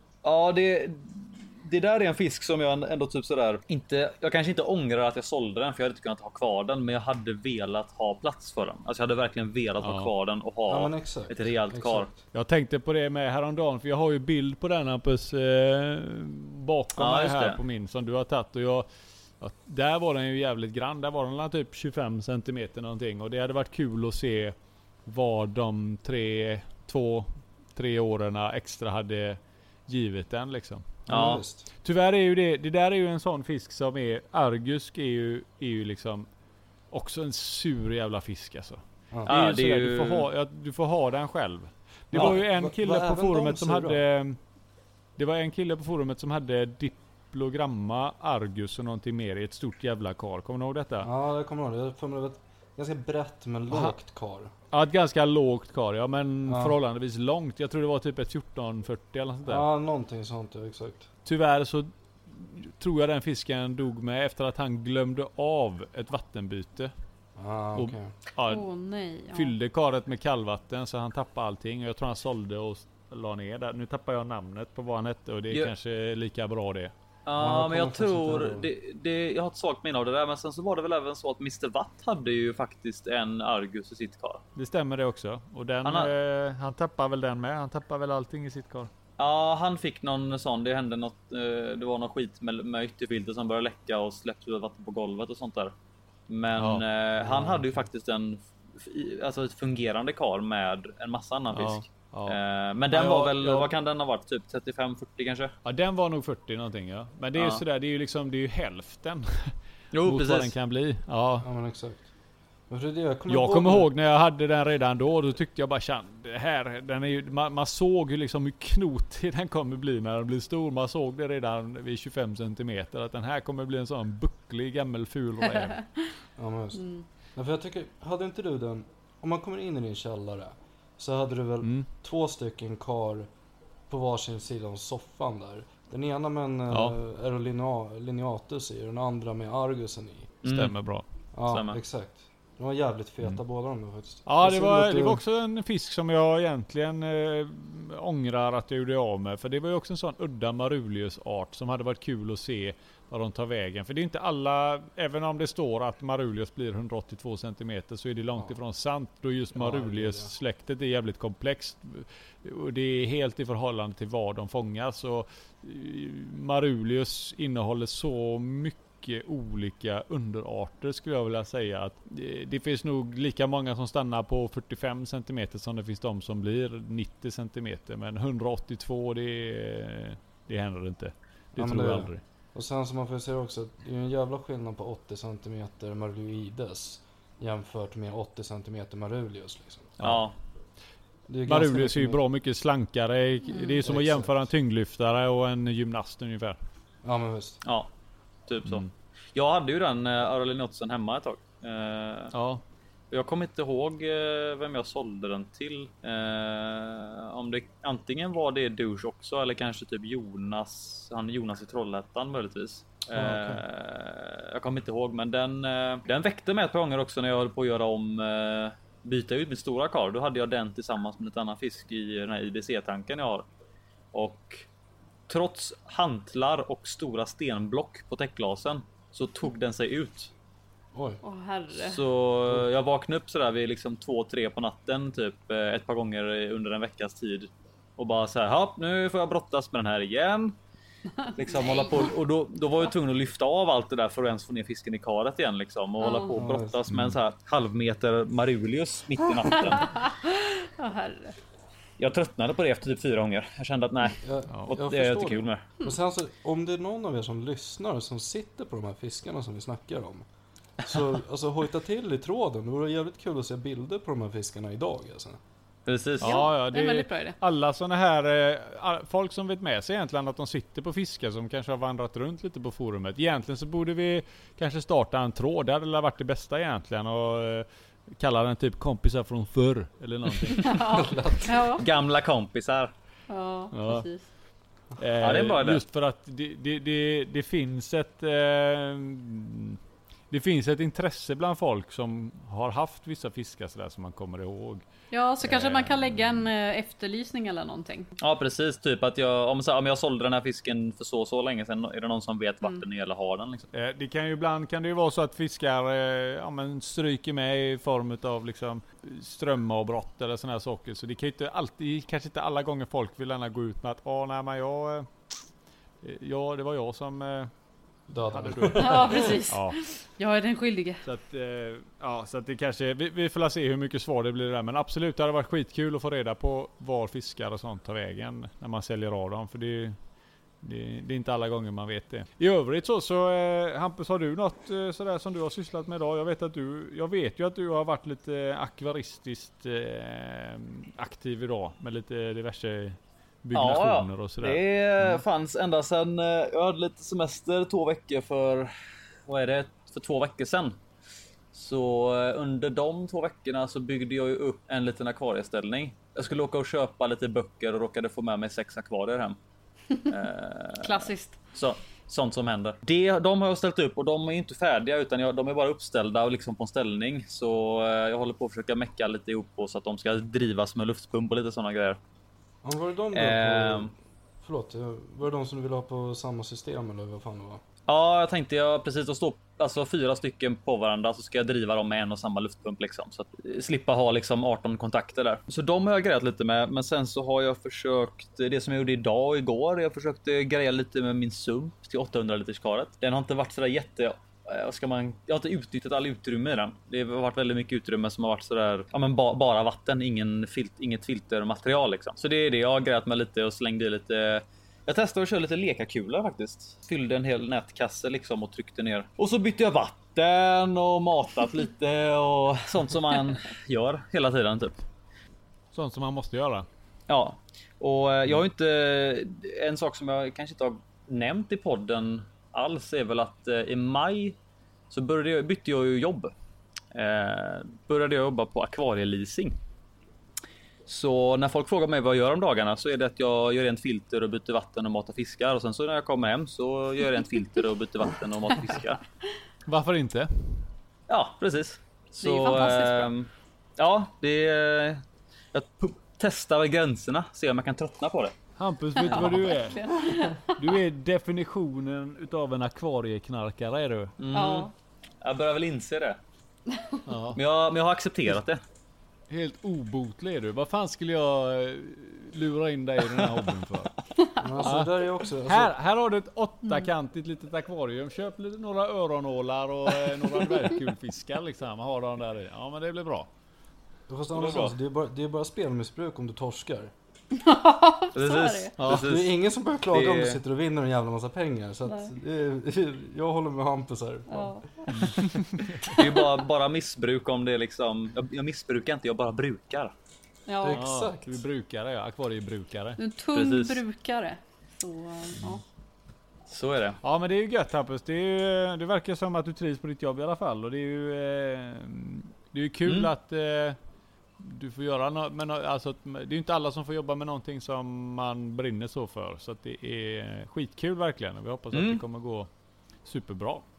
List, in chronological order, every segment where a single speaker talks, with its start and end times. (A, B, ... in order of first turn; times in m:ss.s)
0:00.2-0:12.1 A
0:09.8-0:10.1 B
0:10.7-0:12.2 C
0:12.3-0:18.9 B
0:17.0-0:17.6 A
0:19.4-0:31.0 B
0:31.1-0:31.7 C
0:31.1-0:31.4 A
0:31.8-0:36.3 B
0:36.9-0:44.4 B
0:39.3-0:40.3 A
0:42.1-0:44.0 C
0:45.2-0:51.1 B
0:51.0-0:54.5 C
0:54.7-0:59.6 B
0:56.5-0:56.8 C
0:59.4-1:01.1 C
1:01.2-1:06.9 B
1:07.4-1:08.1 C
1:07.8-1:08.7 B
1:08.5-1:09.5 D
1:09.3-1:16.9 B
1:17.3-1:24.4 A
1:17.4-1:18.7 C
1:24.6-1:28.9 B
1:25.8-1:26.1 A
1:29.2-1:35.7 A
1:36.3-1:45.5 A
1:36.6-1:37.6 B
1:41.5-1:42.4 B
1:42.9-1:43.7 B
1:45.6-1:51.5 B
1:47.4-1:47.6 A
1:49.9-1:50.5 A
1:51.4-1:52.1 C
1:52.7-1:53.9 C
1:53.3-2:05.8 B
2:06.4-2:06.8 C
2:06.8-2:07.0 D
2:07.4-2:13.3 C
2:11.6-2:11.9 B
2:13.9-2:20.3 C
2:16.7-2:17.0 B
2:20.4-2:20.8 A
2:20.5-2:21.0 B
2:21.3-2:25.2 C
2:21.5-2:21.8 A
2:24.3-3:02.2 B
2:39.6-2:40.3 C
3:01.6-3:10.0 C
3:10.0-3:10.2 B
3:10.0-3:10.3 A
3:11.3-3:12.2 C
3:11.5-3:16.6 B
3:13.8-3:14.5 C
3:17.0-3:17.6 C
3:17.6-3:17.9 A
3:18.5-3:22.3 A
3:18.6-3:18.9 B
3:22.3-3:22.6 B
3:23.1-3:43.5 A
3:33.2-3:33.6 B
3:44.1-3:44.7 A
3:45.3-3:50.3 A
3:50.9-3:51.2 C
3:51.2-3:52.0 D
3:51.7-4:00.6 A
4:01.2-4:02.1 D
4:01.4-4:10.0 A
4:06.0-4:06.4 D
4:06.3-4:06.8 C
4:06.9-4:07.2 B
4:09.5-4:11.4 D
4:12.0-4:15.7 A
4:14.2-4:20.3 C
4:20.8-4:25.4 C
4:25.9-4:26.5 A
4:26.2-4:27.4 D
4:26.2-4:40.8 B
4:40.6-4:41.8 D
4:40.9-4:41.7 C
4:41.8-4:42.9 A
4:43.3-4:44.3 D
4:43.7-4:44.1 B
4:45.0-4:54.9 B
4:45.2-4:45.8 A
4:55.1-4:58.1 D
4:55.4-4:56.5 B
4:58.2-5:03.7 A
5:03.7-5:15.1 B
5:16.0-5:17.5 B
5:18.1-5:19.4 C
5:18.3-5:19.8 B
5:18.8-5:21.0 D
5:21.0-5:30.0 B
5:30.6-5:45.2 B
5:43.5-5:48.7 A
5:49.3-5:50.8 A
5:51.5-5:59.4 A
6:00.1-6:12.0 A
6:00.8-6:01.4 D
6:12.6-6:17.6 C
6:13.1-6:13.9 A
6:17.9-6:54.8 A
6:55.7-6:56.7 B
6:57.1-7:04.4 A
7:04.9-7:06.3 A
7:06.9-7:09.6 A
7:10.9-7:19.0 A
7:19.6-7:20.6 B
7:21.1-7:28.4 A
7:22.2-7:23.1 D
7:28.6-7:29.8 B
7:29.0-7:30.7 D
7:30.6-7:34.1 B
7:34.2-7:34.7 A
7:34.3-7:34.7 D
7:35.2-7:36.2 A
7:36.7-7:37.0 D
7:37.1-7:37.4 B
7:37.4-7:38.6 A
7:39.3-7:43.9 B
7:44.4-7:45.7 C
7:44.6-7:53.3 B
7:54.1-7:56.9 C
7:54.3-7:54.7 A
7:57.3-7:58.7 D
7:58.2-7:59.3 A
7:58.8-7:59.1 B
7:58.9-8:05.2 C
7:59.9-8:00.4 A
8:01.9-8:02.1 D
8:04.3-8:05.2 D
8:04.9-8:05.8 B
8:05.9-8:09.9 A
8:10.5-8:10.8 D
8:10.6-8:11.4 C
8:10.7-8:13.0 B
8:13.0-8:15.6 D
8:13.3-8:13.8 A
8:16.5-8:17.0 A
8:17.0-8:23.8 B
8:22.8-8:23.1 A
8:24.4-8:32.5 B
8:31.7-8:32.0 A
8:33.0-8:33.6 B